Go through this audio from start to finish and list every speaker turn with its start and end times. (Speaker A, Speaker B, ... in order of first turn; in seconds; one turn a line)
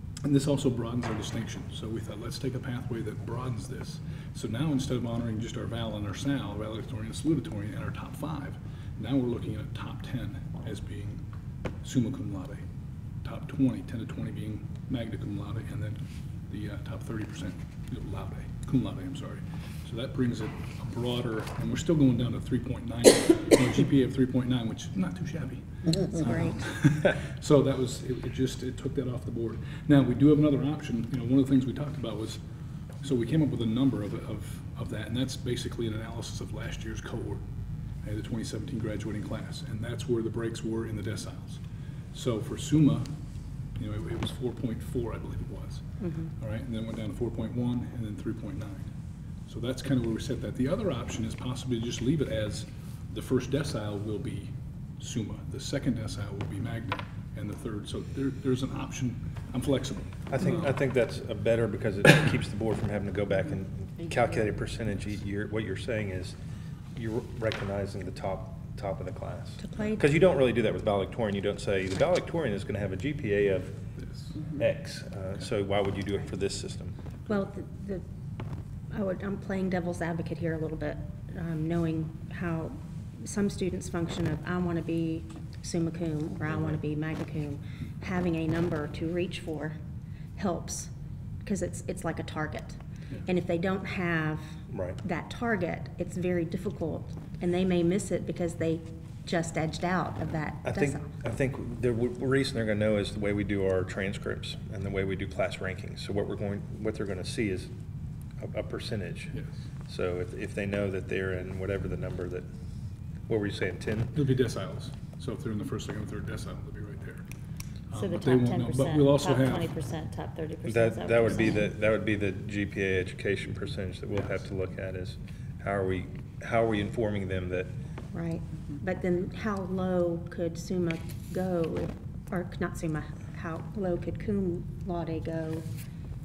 Speaker A: 0.2-11.2
Speaker A: 11.8-12.6
Speaker A: 13.2-32.4
Speaker B: 26.1-26.6
Speaker A: 33.0-37.4
Speaker A: 38.0-41.6
Speaker A: 42.1-43.1
Speaker A: 43.8-45.9
Speaker B: 46.0-46.3
Speaker A: 46.4-48.9
Speaker A: 49.5-60.3
Speaker C: 60.3-66.4
Speaker C: 67.0-73.8
Speaker B: 69.6-70.0
Speaker C: 74.5-77.0
Speaker B: 77.3-78.0
Speaker B: 78.9-89.8
Speaker C: 86.5-86.8
Speaker B: 90.4-90.9
Speaker B: 91.4-101.1
Speaker C: 94.7-95.0
Speaker C: 100.6-107.7
Speaker C: 108.4-109.4
Speaker A: 109.3-109.6
Speaker C: 109.9-112.5
Speaker C: 113.3-114.2
Speaker A: 114.1-117.2
Speaker A: 117.9-119.7
Speaker D: 117.9-121.7
Speaker C: 120.7-127.8
Speaker A: 124.1-124.4
Speaker B: 128.1-135.7